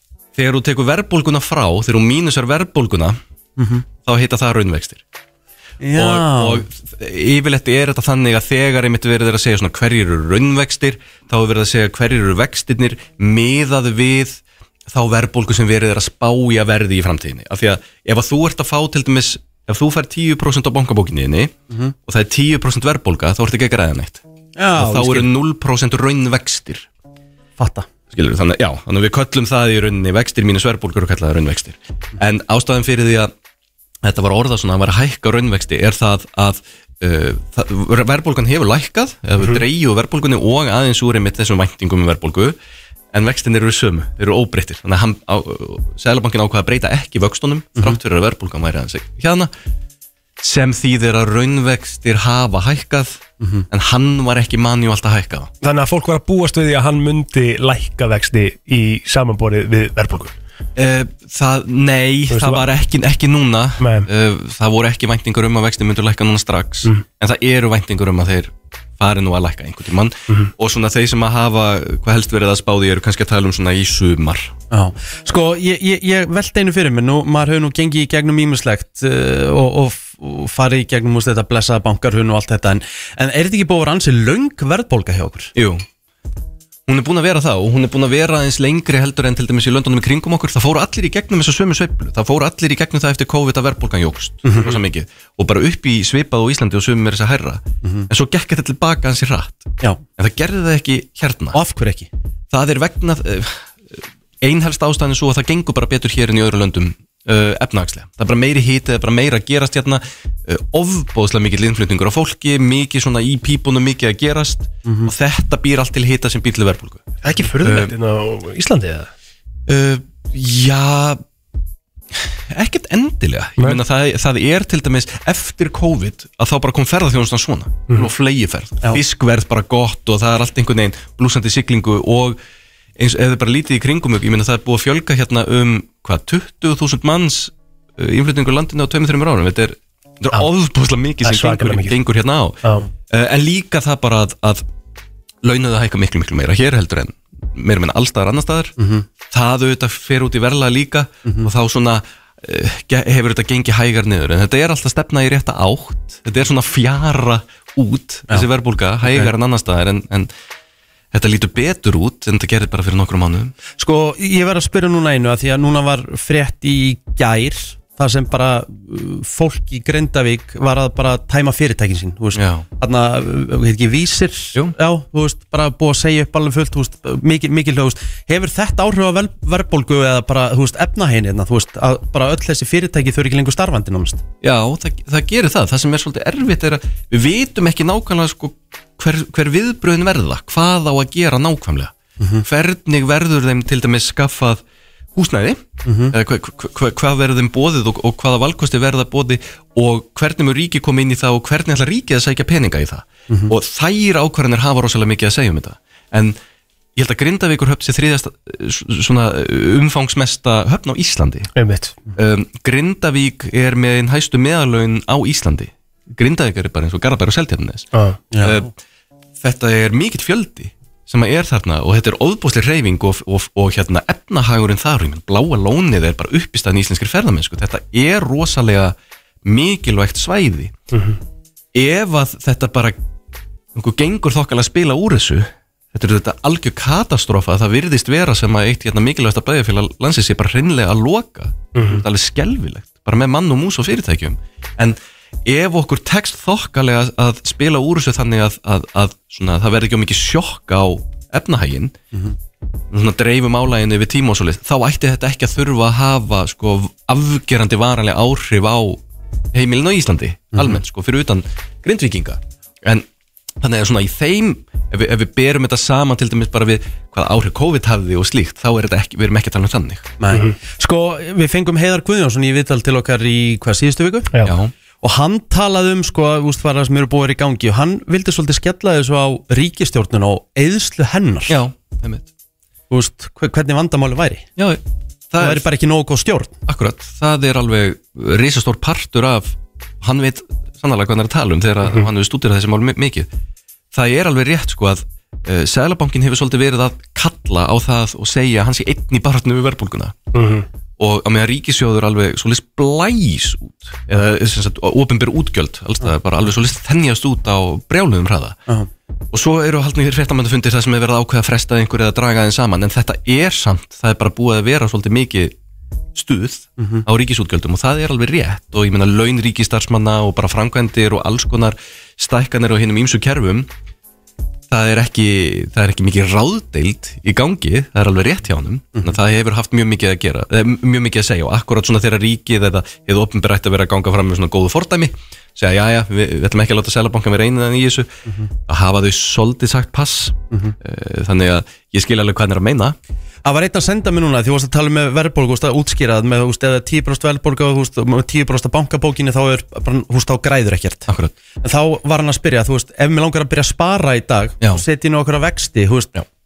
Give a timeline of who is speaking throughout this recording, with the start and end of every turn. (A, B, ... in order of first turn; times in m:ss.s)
0:00.3-0:03.2 A
0:03.6-0:03.8 B
0:04.0-0:05.0 A
0:05.8-0:06.6 B
0:05.9-0:21.5 A
0:22.0-0:24.2 A
0:24.6-0:25.3 B
0:24.8-0:26.8 A
0:27.6-0:27.9 B
0:28.1-0:33.3 A
0:34.0-0:42.6 A
0:43.1-0:49.5 A
0:50.4-0:55.5 A
0:53.4-0:53.7 B
0:55.6-1:00.3 C
1:00.8-1:14.5 A
1:02.3-1:02.6 C
1:03.8-1:04.1 C
1:14.7-1:25.5 B
1:25.5-1:25.8 A
1:26.9-1:41.6 A
1:34.4-1:34.8 B
1:37.8-1:38.1 B
1:41.5-1:42.1 B
1:42.5-1:57.9 A
1:54.8-1:55.1 B
1:57.2-1:59.1 C
1:59.7-2:01.2 A
2:02.5-2:12.4 A
2:13.0-2:24.6 A
2:21.2-2:21.9 C
2:25.4-2:28.7 A
2:28.8-2:29.0 B
2:29.2-2:40.3 A
2:31.2-2:31.5 B
2:39.0-2:39.3 B
2:41.1-2:43.5 A
2:43.7-3:04.2 B
2:52.3-2:52.7 A
3:04.4-3:11.9 A
3:12.2-3:12.4 B
3:12.4-3:14.6 A
3:15.1-3:26.4 A
3:15.8-3:16.2 B
3:23.3-3:23.5 B
3:27.0-3:31.5 A
3:31.5-3:31.9 C
3:32.2-3:38.7 A
3:38.3-3:38.7 B
3:39.4-3:50.7 A
3:50.9-3:51.2 C
3:51.7-3:53.0 A
3:53.7-4:11.9 A
4:01.7-4:02.0 C
4:12.9-4:19.0 A
4:19.5-4:23.0 A
4:20.5-4:20.8 B
4:23.6-4:30.2 A
4:30.2-4:34.3 B
4:34.4-4:34.7 A
4:35.0-4:41.6 B
4:41.5-4:42.3 A
4:42.9-4:44.5 B
4:44.6-4:45.6 A
4:45.4-4:46.6 B
4:46.7-4:53.3 A
4:53.9-5:00.2 A
5:00.3-5:00.6 C
5:01.0-5:08.6 A
5:09.3-5:15.5 A
5:16.1-5:23.7 A
5:16.8-5:17.0 B
5:24.7-5:38.1 A
5:38.7-5:43.0 A
5:43.4-5:51.1 B
5:51.1-5:51.3 A
5:51.6-5:56.1 B